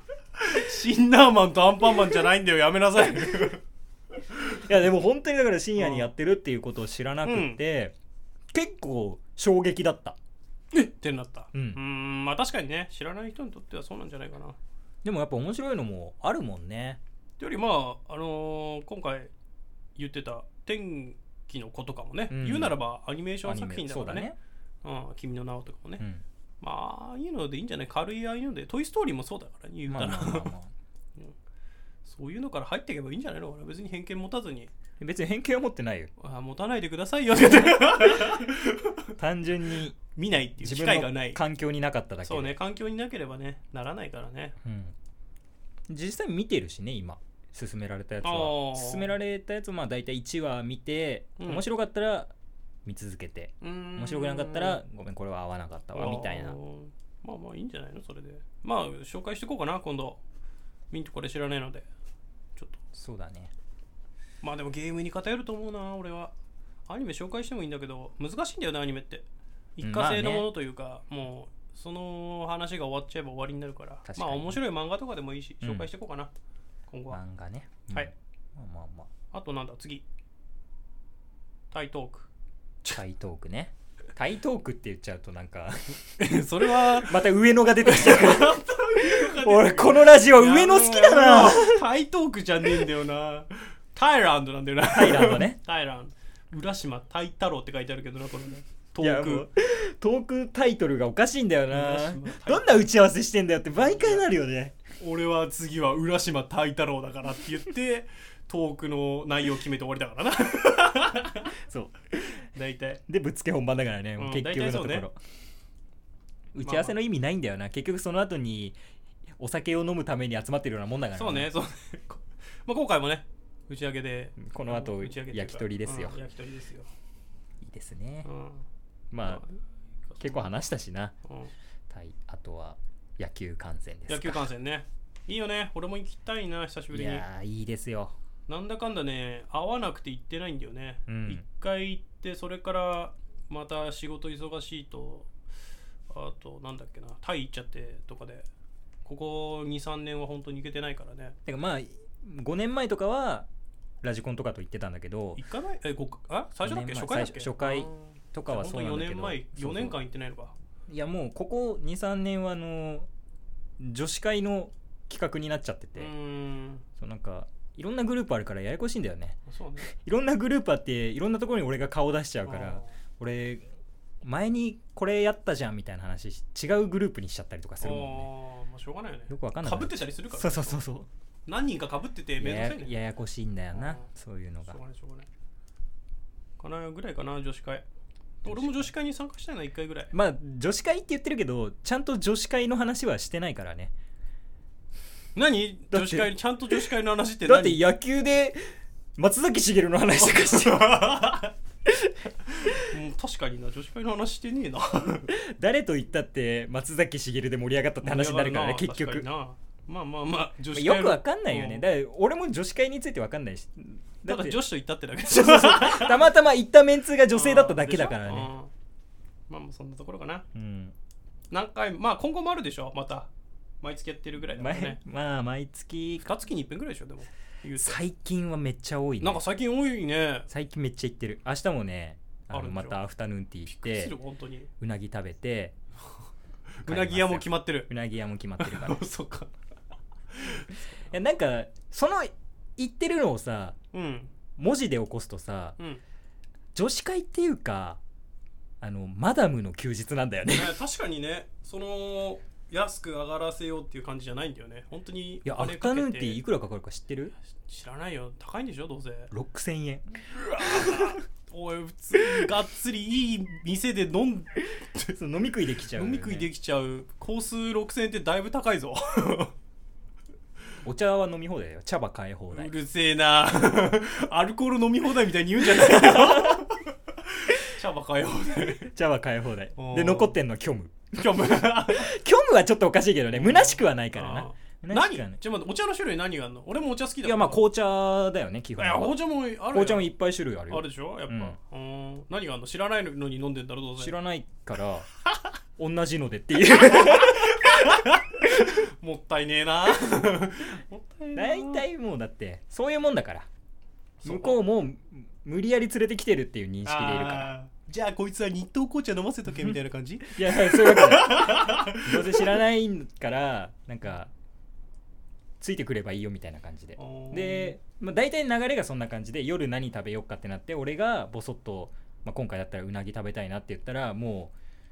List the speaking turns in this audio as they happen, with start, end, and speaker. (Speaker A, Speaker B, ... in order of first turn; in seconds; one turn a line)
Speaker A: 0.4-3.6
Speaker B: 4.4-7.9
Speaker A: 5.8-6.1
Speaker A: 7.2-7.6
Speaker B: 8.5-10.2
Speaker A: 10.7-14.6
Speaker B: 11.5-11.8
Speaker B: 15.0-17.0
Speaker A: 17.4-19.3
Speaker A: 19.9-24.3
Speaker B: 22.3-22.8
Speaker B: 23.4-24.4
Speaker A: 24.8-26.1
Speaker A: 26.6-30.5
Speaker B: 29.9-30.7
Speaker A: 32.0-34.7
Speaker B: 35.0-36.1
Speaker A: 36.2-39.0
Speaker B: 39.2-40.0
Speaker A: 40.1-41.4
Speaker B: 40.6-42.5
Speaker A: 42.2-44.5
Speaker B: 44.6-44.9
Speaker B: 45.9-52.3
Speaker A: 48.2-49.2
Speaker A: 51.4-51.6
Speaker B: 52.8-56.6
Speaker A: 53.6-54.8
Speaker A: 55.9-60.2
Speaker A: 60.9-61.9
Speaker B: 62.9-63.5
Speaker A: 64.4-66.3
Speaker A: 66.9-69.2
Speaker A: 69.8-76.3
Speaker B: 69.8-70.5
Speaker B: 74.0-74.6
Speaker B: 75.6-75.9
Speaker A: 76.9-77.2
Speaker B: 77.1-79.1
Speaker A: 79.3-80.0
Speaker A: 81.7-82.3
Speaker B: 82.9-86.0
Speaker A: 86.2-99.5
Speaker B: 86.8-91.8
Speaker B: 94.9-95.6
Speaker B: 99.0-104.7
Speaker A: 101.7-102.9
Speaker A: 103.8-104.3
Speaker A: 105.0-111.5
Speaker B: 111.7-112.4
Speaker A: 112.5-113.0
Speaker B: 113.1-115.1
Speaker A: 114.2-115.1
Speaker B: 116.5-118.8
Speaker A: 116.6-117.0
Speaker B: 119.4-121.5
Speaker A: 121.1-126.9
Speaker B: 124.4-126.2
Speaker B: 127.6-128.3
Speaker A: 128.2-128.6
Speaker B: 129.1-129.4
Speaker A: 129.2-129.6
Speaker A: 130.1-130.5
Speaker B: 130.2-131.1
Speaker A: 131.2-131.5
Speaker B: 131.9-134.5
Speaker A: 134.1-137.2
Speaker B: 136.9-138.1
Speaker A: 138.5-145.3
Speaker B: 141.1-141.4
Speaker A: 146.1-148.5
Speaker A: 149.0-151.3
Speaker B: 151.4-153.5
Speaker B: 154.0-155.4
Speaker A: 155.4-160.5
Speaker B: 156.6-160.0
Speaker B: 160.9-163.1
Speaker B: 163.8-166.1
Speaker A: 165.9-166.8
Speaker B: 167.0-173.7
Speaker A: 169.4-169.9
Speaker A: 172.4-172.9
Speaker B: 174.2-178.3
Speaker A: 177.8-180.8
Speaker B: 179.3-181.1
Speaker A: 181.5-183.0
Speaker B: 182.4-184.8
Speaker A: 183.7-184.1
Speaker A: 184.7-185.3
Speaker A: 186.6-187.8
Speaker B: 188.4-188.9
Speaker A: 188.4-190.1
Speaker B: 190.1-193.9
Speaker A: 195.3-197.9
Speaker B: 195.9-196.8
Speaker B: 197.4-201.1
Speaker A: 200.2-201.5
Speaker A: 202.8-205.3
Speaker B: 205.3-209.2
Speaker A: 208.0-211.8
Speaker B: 210.7-214.6
Speaker A: 214.2-216.3
Speaker B: 215.2-218.5
Speaker A: 217.3-218.7
Speaker A: 219.5-220.4
Speaker B: 220.5-220.9
Speaker A: 221.5-223.3
Speaker A: 223.8-225.0
Speaker B: 224.5-226.3
Speaker A: 226.2-228.0
Speaker B: 227.7-229.4
Speaker A: 229.2-230.5
Speaker B: 230.5-234.1
Speaker A: 232.5-233.0
Speaker A: 233.7-234.7
Speaker B: 234.8-235.7
Speaker A: 236.8-237.9
Speaker B: 236.8-239.0
Speaker A: 238.6-239.5
Speaker A: 240.3-240.9
Speaker B: 241.1-243.8
Speaker A: 243.9-244.3
Speaker B: 244.6-245.8
Speaker B: 246.7-248.0
Speaker B: 248.8-250.8
Speaker A: 250.4-256.4
Speaker B: 255.4-257.3
Speaker A: 257.5-259.3
Speaker B: 259.3-260.0
Speaker A: 260.4-265.1
Speaker B: 260.6-261.1
Speaker B: 265.1-266.5
Speaker A: 265.9-269.5
Speaker B: 270.8-272.7
Speaker A: 272.5-278.9
Speaker B: 275.9-276.6
Speaker B: 278.8-285.4
Speaker A: 279.8-280.3
Speaker A: 281.1-282.2
Speaker A: 283.3-287.6
Speaker B: 287.2-291.6
Speaker A: 288.8-290.1
Speaker A: 290.7-294.1
Speaker B: 294.0-295.1
Speaker B: 295.8-297.7
Speaker A: 297.0-301.9
Speaker B: 301.4-303.5
Speaker A: 304.2-304.6
Speaker B: 304.2-307.5
Speaker A: 306.8-312.5
Speaker B: 310.3-314.3
Speaker B: 315.6-324.5
Speaker A: 317.0-317.8